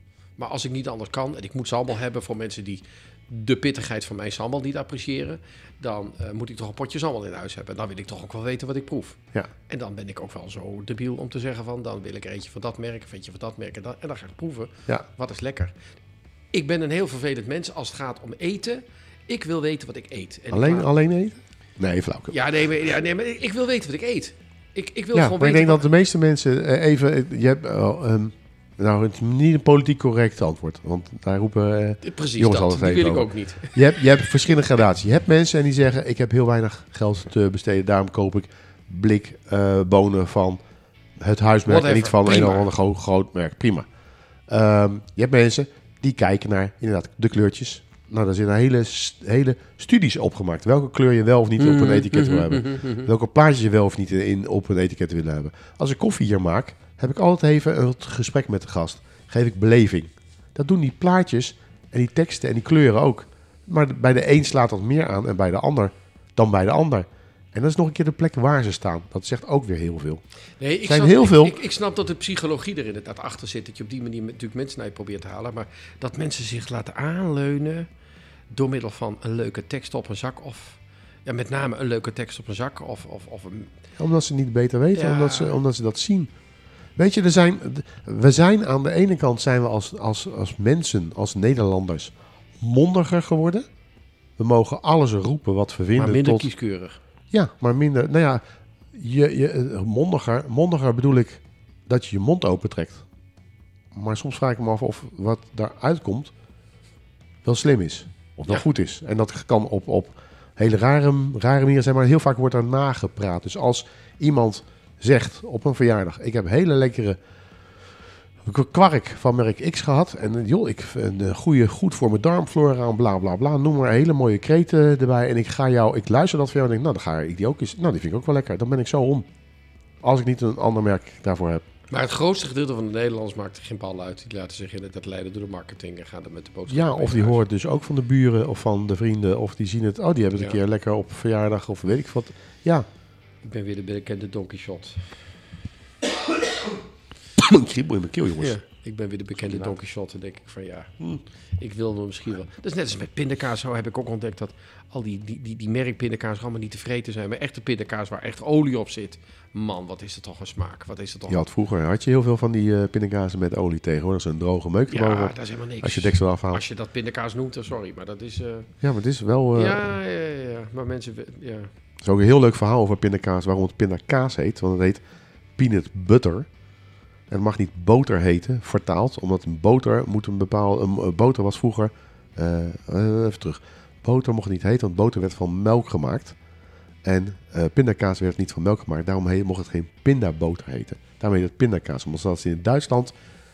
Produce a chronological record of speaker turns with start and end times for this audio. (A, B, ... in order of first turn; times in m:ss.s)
0:00.4-0:15.8 A
0:16.5-0:20.9 A
0:20.5-0:22.3 B
0:22.3-0:25.9 A
0:25.1-0:40.6 B
0:32.0-0:34.0 A
0:41.2-0:43.9 B
0:41.7-0:42.7 A
0:44.5-1:10.2 B
0:51.6-0:53.1 A
1:10.6-1:17.9 A
1:10.8-1:11.6 B
1:18.5-1:23.7 A
1:24.0-1:26.3 B
1:25.0-1:25.6 A
1:27.0-1:33.6 B
1:34.4-1:36.5 B
1:36.0-1:37.0 A
1:37.3-1:38.4 B
1:38.9-1:43.0 B
1:43.9-1:46.3 B
1:47.4-1:57.2 B
1:58.4-2:09.3 B
2:10.0-2:11.6 B
2:11.9-2:17.4 A
2:16.7-2:22.9 B
2:23.4-2:25.2 A
2:27.4-2:28.6 B
2:28.4-2:41.5 A
2:29.4-2:29.8 B
2:41.3-2:46.6 B
2:44.9-2:48.7 A
2:48.8-2:49.9 B
2:49.5-2:51.7 A
2:52.0-2:55.0 B
2:55.6-2:56.5 B
2:57.3-3:06.4 B
3:07.0-3:13.2 B